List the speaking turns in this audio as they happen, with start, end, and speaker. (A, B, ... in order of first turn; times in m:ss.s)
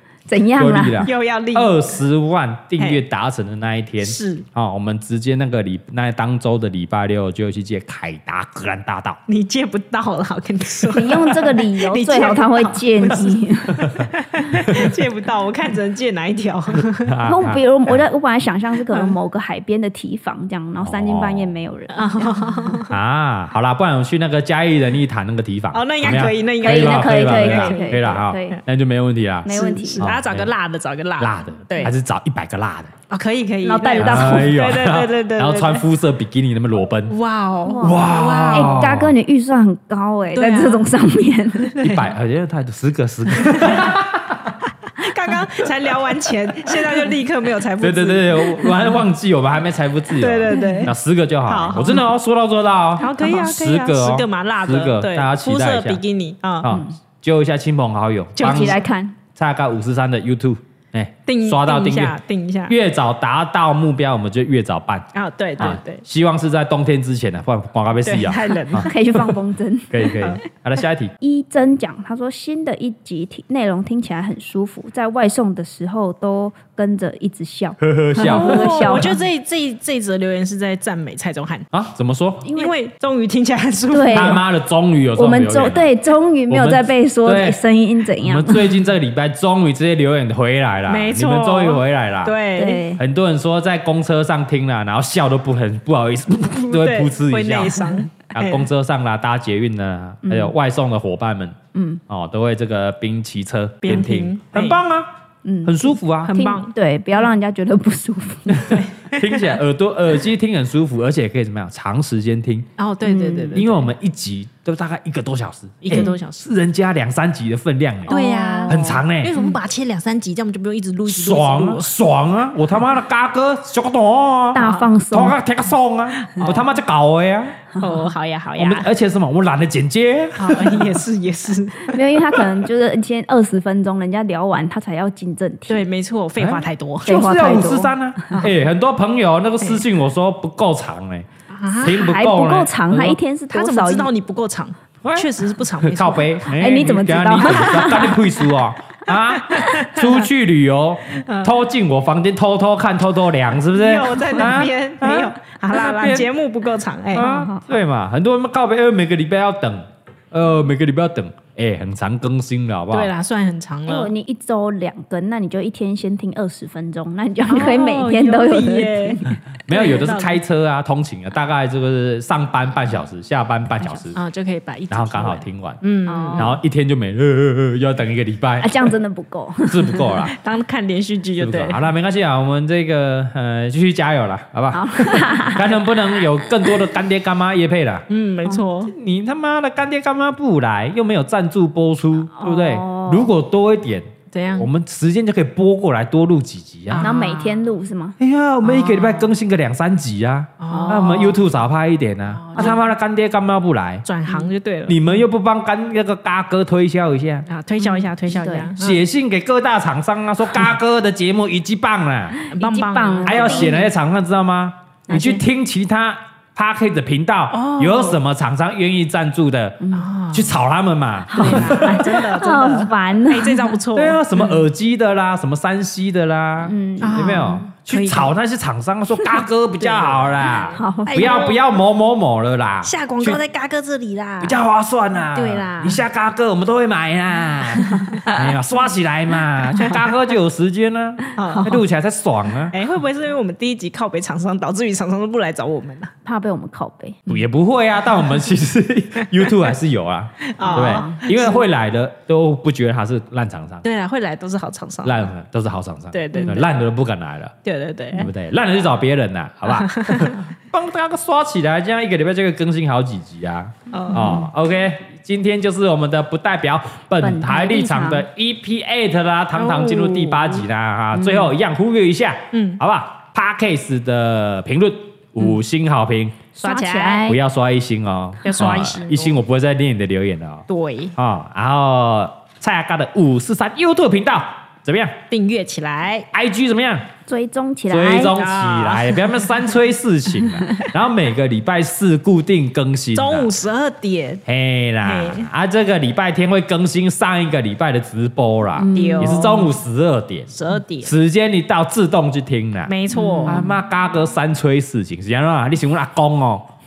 0:00.3-0:01.1 A
0:00.5-0:09.2 B
0:01.0-0:01.8 C
0:04.0-0:04.4 C
0:09.3-0:17.2 C
0:10.9-0:13.9 A
0:13.7-0:14.1 B
0:14.6-0:14.9 B
0:17.0-0:18.0 B
0:17.2-0:22.7 A
0:18.9-0:19.1 C
0:20.8-0:21.5 B
0:21.9-0:22.9 C
0:22.9-0:30.5 B
0:25.7-0:28.6 C
0:26.6-0:28.6 A
0:29.4-0:30.1 A
0:29.4-0:31.9 C
0:31.2-0:32.9 B
0:33.1-0:35.8 C
0:33.6-0:34.6 A
0:34.0-0:37.2 B
0:37.1-0:39.0 C
0:37.6-0:41.8 A
0:37.8-0:39.1 B
0:40.3-0:40.9 C
0:41.6-0:42.1 C
0:41.8-0:44.6 B
0:43.4-0:43.8 C
0:44.8-0:49.0 C
0:47.8-0:56.0 B
0:50.2-0:50.9 C
0:50.5-0:50.9 A
0:51.4-0:52.1 C
0:53.0-0:56.8 C
0:56.6-0:58.8 B
0:58.4-0:58.8 C
0:58.4-0:59.1 A
0:59.3-1:09.4 B
1:01.2-1:02.8 C
1:05.1-1:06.0 C
1:08.0-1:08.9 C
1:08.8-1:10.4 A
1:09.9-1:11.1 B
1:11.2-1:19.2 A
1:17.8-1:19.1 B
1:18.2-1:21.7 C
1:21.7-1:22.5 B
1:22.4-1:22.7 A
1:22.5-1:24.4 C
1:23.9-1:24.4 A
1:24.1-1:25.9 B
1:25.1-1:28.7 A
1:26.5-1:27.6 B
1:28.2-1:32.4 B
1:30.9-1:33.0 C
1:32.5-1:33.0 A
1:33.0-1:41.6 B
1:36.7-1:38.7 C
1:40.2-1:40.5 A
1:41.7-1:42.0 A
1:42.1-1:45.1 B
1:43.8-1:44.8 C
1:45.4-1:48.8 A
1:45.6-1:46.3 B
1:46.2-1:47.3 C
1:48.5-1:52.7 B
1:48.6-1:49.5 C
1:52.8-1:53.9 C
1:53.0-1:53.6 A
1:53.5-1:58.2 B
1:55.8-1:56.4 C
1:58.1-2:01.9 C
1:58.1-1:59.5 A
1:58.7-1:59.3 B
2:01.1-2:07.6 B
2:04.5-2:05.4 A
2:04.6-2:04.9 C
2:06.2-2:06.7 C
2:07.8-2:08.9 C
2:08.6-2:11.0 B
2:10.3-2:12.3 C
2:11.9-2:15.8 A
2:15.7-2:17.3 C
2:16.4-2:23.2 B
2:17.0-2:18.5 A
2:21.5-2:22.1 C
2:21.8-2:24.1 A
2:23.5-2:26.4 C
2:25.0-2:36.3 B
2:26.6-2:28.2 A
2:29.4-2:30.3 C
2:31.1-2:31.6 C
2:33.7-2:37.3 C
2:37.1-2:37.6 A
2:37.2-2:43.1 B
2:42.9-2:44.1 C
2:43.9-2:49.4 A
2:47.4-2:50.4 C
2:49.7-2:54.2 B
2:53.8-2:54.1 A
2:54.1-2:56.5 C
2:54.9-2:55.8 B
2:56.1-2:56.6 A
2:56.3-2:58.9 B
2:58.6-3:00.3 A
2:59.6-3:00.3 B
3:00.3-3:01.8 C
3:01.4-3:08.0 B
3:04.7-3:05.8 A
3:08.1-3:08.9 C
3:08.9-3:17.1 B
3:12.4-3:13.3 A
3:14.3-3:14.7 C
3:16.9-3:17.6 C
3:17.0-3:18.2 A
3:18.2-3:24.0 B
3:18.6-3:19.3 C
3:20.6-3:21.4 C
3:20.7-3:21.2 A
3:22.3-3:22.8 C
3:24.0-3:25.0 C
3:24.8-3:27.4 B
3:27.5-3:29.0 C
3:27.8-3:28.7 A
3:28.8-3:32.4 B
3:32.4-3:33.8 A
3:32.5-3:33.9 C
3:33.2-3:39.8 B
3:35.1-3:35.4 A
3:37.5-3:38.2 C
3:39.8-3:40.1 A
3:39.9-3:40.5 C
3:40.3-3:42.2 B
3:41.3-3:43.8 A
3:41.3-3:44.6 C
3:43.9-3:53.4 B
3:46.6-3:47.6 A
3:47.0-3:48.3 C
3:49.8-3:51.6 C
3:50.6-3:51.4 A
3:52.8-3:54.6 C
3:54.4-4:02.8 B
3:55.3-3:56.0 C
4:01.3-4:01.8 C
4:02.7-4:06.1 C
4:06.2-4:07.3 A
4:07.3-4:13.8 B
4:10.4-4:11.6 C
4:10.6-4:11.2 A
4:13.8-4:15.3 C
4:15.0-4:17.5 B
4:16.1-4:16.7 C
4:16.3-4:16.6 A
4:17.6-4:18.3 C
4:18.1-4:36.5 B
4:19.7-4:20.4 C
4:23.9-4:24.4 C
4:24.1-4:24.4 A
4:27.2-4:28.2 A
4:29.5-4:30.6 C
4:31.1-4:31.5 A
4:32.5-4:32.8 C
4:36.6-4:37.3 C
4:36.6-4:37.4 A
4:37.2-4:40.6 B
4:38.4-4:39.4 C
4:40.7-4:41.1 C
4:41.2-4:45.2 B
4:45.3-4:46.3 C
4:46.3-4:47.1 B
4:47.3-4:48.4 A
4:47.9-4:53.5 B
4:48.2-4:49.6 C
4:53.1-4:54.4 C
4:54.4-5:00.5 B
4:55.0-4:55.5 C
4:58.8-4:59.6 A
4:58.9-4:59.7 C
5:00.5-5:01.1 C
5:01.0-5:02.9 B
5:02.9-5:03.6 C
5:03.1-5:03.8 A
5:03.5-5:06.7 B